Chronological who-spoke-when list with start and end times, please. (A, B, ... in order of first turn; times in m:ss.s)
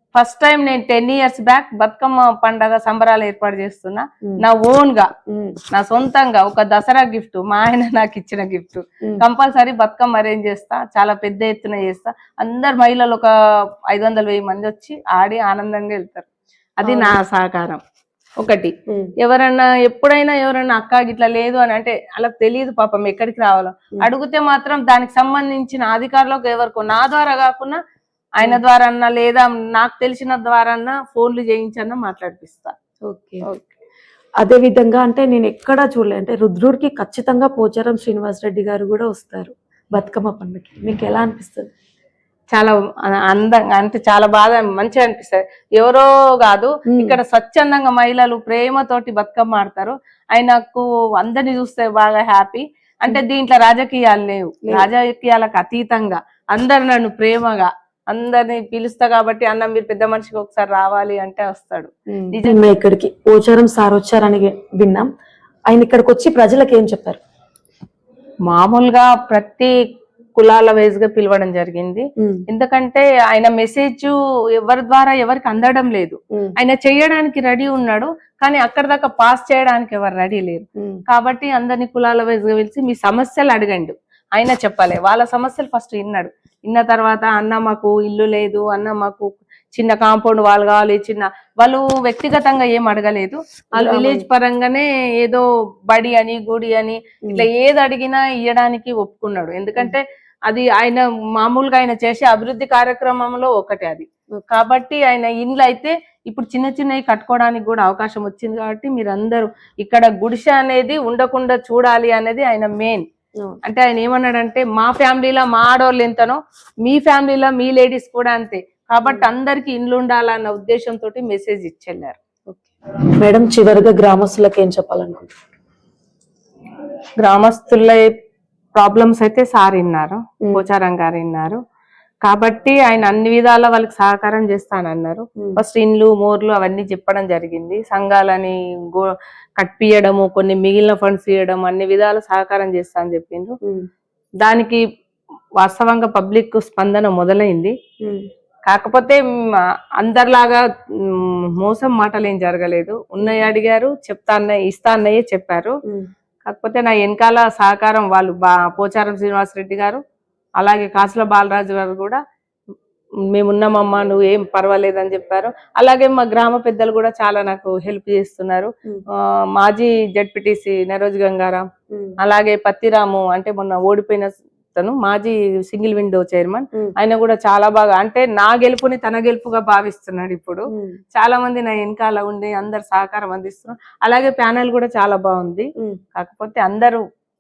0:00.2-0:05.1 A
0:05.3-0:05.6 B
0:05.7-0:13.3 A
0:13.9-0:16.3 A
0:16.8-0:17.8 A
0:16.8-0:17.2 B
0:18.4-0:27.8 A
0:18.9-0:19.1 B
0:28.4-0:32.7 A
0:33.1-0:33.4 B
0:33.4-0:33.8 A
0:34.4-0:41.7 B
0:42.5-1:02.6 A
0:46.9-0:47.2 B
1:02.1-1:05.1 B
1:05.7-1:07.2 B
1:08.5-1:09.8 A
1:10.4-1:53.0 A
1:12.2-1:12.4 B
1:20.8-1:21.0 B
1:33.8-1:34.3 B
1:53.6-2:02.2 A
1:59.0-1:59.3 B
2:02.5-2:05.4 B
2:07.2-2:08.1 A
2:08.8-2:11.6 A
2:12.2-2:23.6 A
2:24.4-2:24.8 A
2:25.6-2:27.8 A
2:28.7-2:35.8 A
2:36.5-2:40.0 A
2:40.6-2:42.2 A
2:43.3-2:48.7 A
2:49.6-2:51.6 A
2:52.2-3:07.0 A
3:00.7-3:01.0 B